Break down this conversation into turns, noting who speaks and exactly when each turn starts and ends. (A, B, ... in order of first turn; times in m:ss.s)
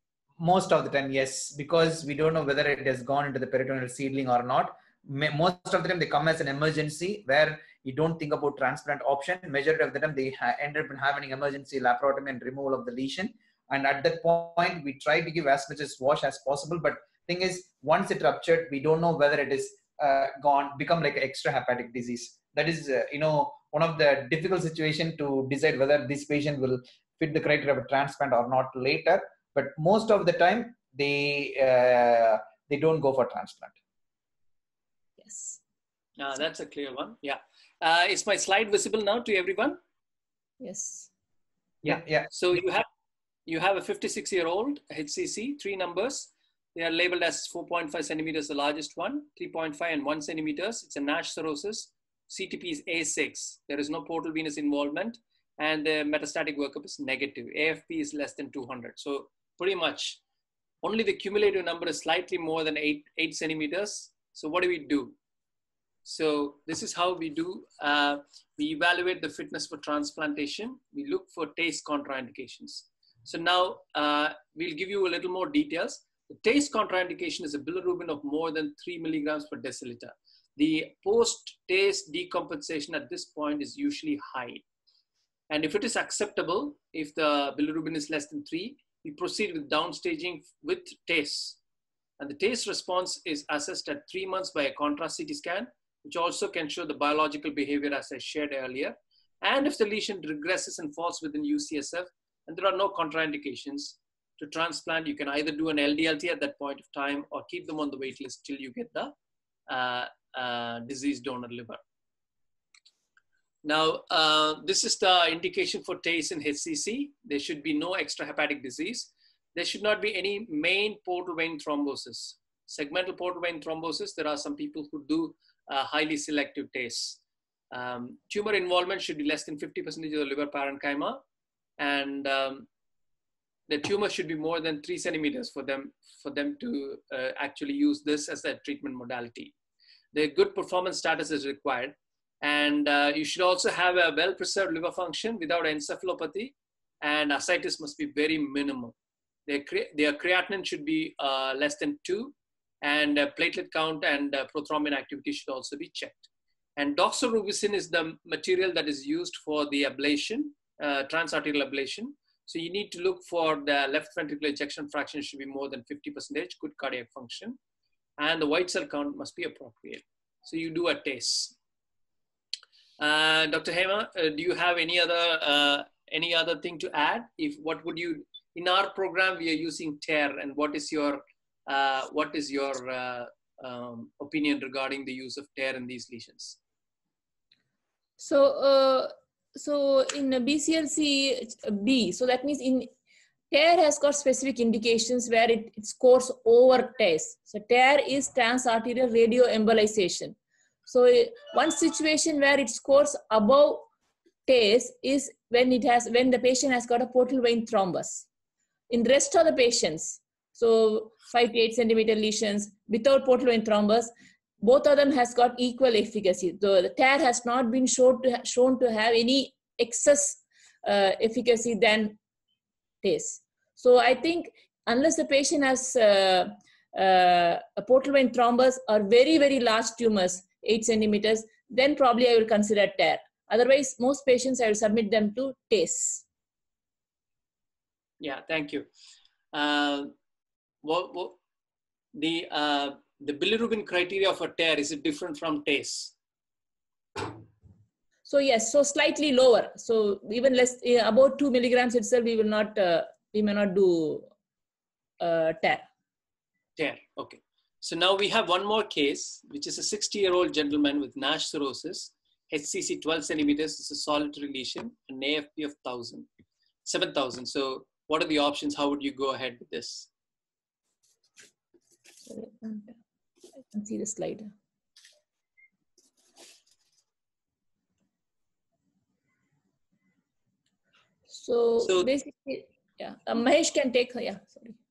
0:00.4-0:33.8 A
0:35.2-0:35.6 B
0:36.2-0:39.8 C
0:40.6-0:41.1 B
0:41.8-0:42.8 C
0:41.8-0:42.6 A
0:43.5-1:00.2 C
1:00.8-1:05.2 C
1:06.1-1:24.6 C
1:25.5-1:31.6 C
1:32.2-1:49.1 C
1:49.7-1:51.8 C
1:53.6-2:07.2 C
2:07.7-2:11.2 C
2:11.8-2:12.7 C
2:13.7-2:19.5 C
2:20.1-2:28.9 C
2:29.5-2:47.6 C
2:48.2-2:51.6 C
2:53.0-3:06.6 C
3:08.2-3:12.9 B
3:13.5-3:20.4 B
3:20.9-3:23.9 B
3:24.5-3:28.2 B
3:28.9-3:42.2 B
3:43.0-3:56.2 B
3:58.2-3:58.9 C
3:59.5-4:00.1 C
4:00.8-4:01.4 C
4:02.1-4:06.1 C
4:08.3-4:14.3 B
4:15.2-4:15.8 B
4:16.8-4:26.3 C
4:26.8-4:30.1 C
4:32.3-4:33.0 B
4:33.6-4:34.5 B
4:41.3-4:44.8 B
4:41.8-4:42.1 C